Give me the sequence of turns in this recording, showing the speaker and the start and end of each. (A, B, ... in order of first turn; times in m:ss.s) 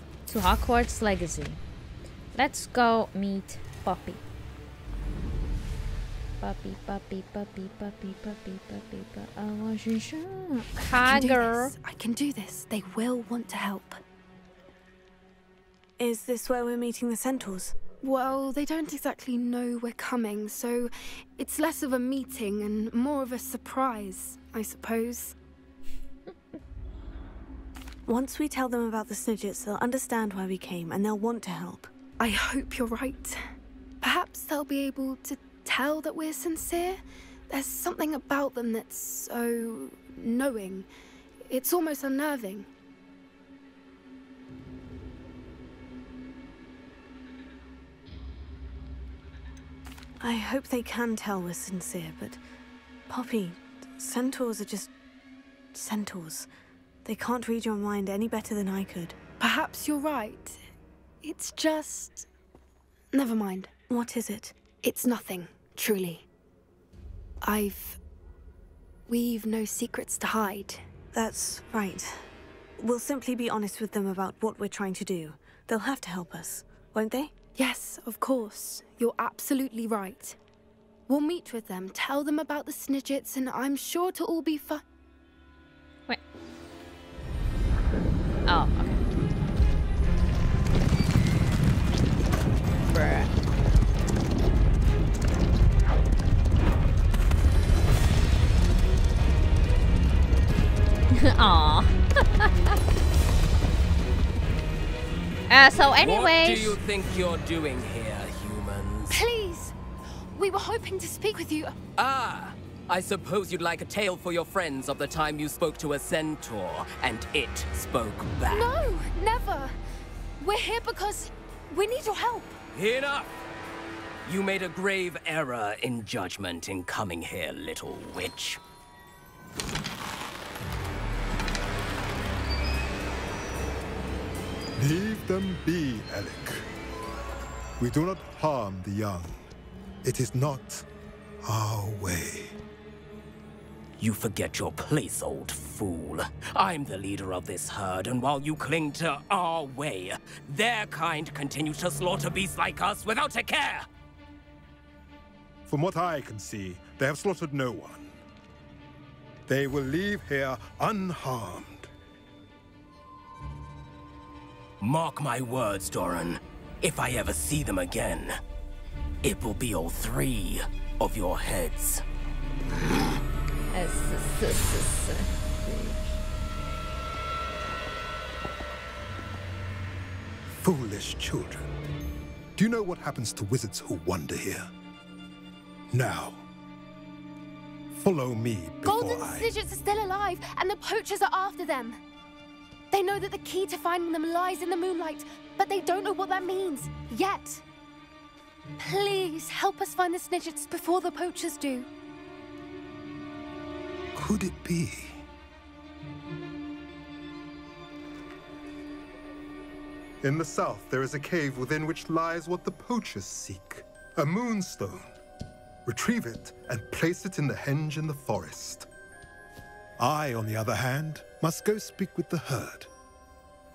0:00.2-0:01.6 A
0:02.3-0:04.2 A
0:06.4-0:11.7 A
0:10.9-0:14.0 B
0:16.0-0:17.7 C
0:18.0-0:25.3 B
0:28.0-0:31.9 C
0:32.2-0:33.4 B
0:34.0-0:40.9 B
0:41.5-0:42.7 B
0:50.2-0:52.4 C
0:53.1-0:54.9 C
0:55.7-0:56.5 C
0:57.0-0:59.2 C
0:59.4-1:00.6 B
1:01.2-1:02.3 B
1:03.1-1:03.7 B
1:03.9-1:04.5 C
1:04.8-1:06.2 B
1:07.4-1:08.0 B
1:09.1-1:10.8 B
1:11.1-1:12.2 C
1:12.8-1:17.3 C
1:17.6-1:20.4 B
1:21.1-1:24.8 B
1:28.4-1:29.0 A
1:32.9-1:33.3 A
1:41.1-1:42.8 A
1:45.5-1:46.8 A
1:46.0-1:49.2 D
1:49.1-1:49.7 B
1:50.3-1:51.8 B
1:52.0-1:58.7 D
1:58.4-1:59.8 B
2:00.4-2:02.6 B
2:02.7-2:03.3 D
2:04.2-2:08.6 D
2:14.8-2:16.6 E
2:17.8-2:19.4 E
2:20.0-2:20.8 E
2:21.4-2:22.5 E
2:24.0-2:33.8 D
2:35.7-2:38.2 E
2:39.5-2:41.9 E
2:44.8-2:48.4 D
2:49.2-2:52.0 D
2:53.7-2:56.0 A
3:00.6-3:01.7 E
3:02.6-3:04.7 E
3:05.9-3:06.4 E
3:07.9-3:09.5 E
3:08.8-3:12.0 B
3:12.9-3:17.6 B
3:18.8-3:21.9 B
3:24.1-3:25.2 E
3:30.2-3:35.2 E
3:35.8-3:38.9 E
3:40.0-3:42.9 E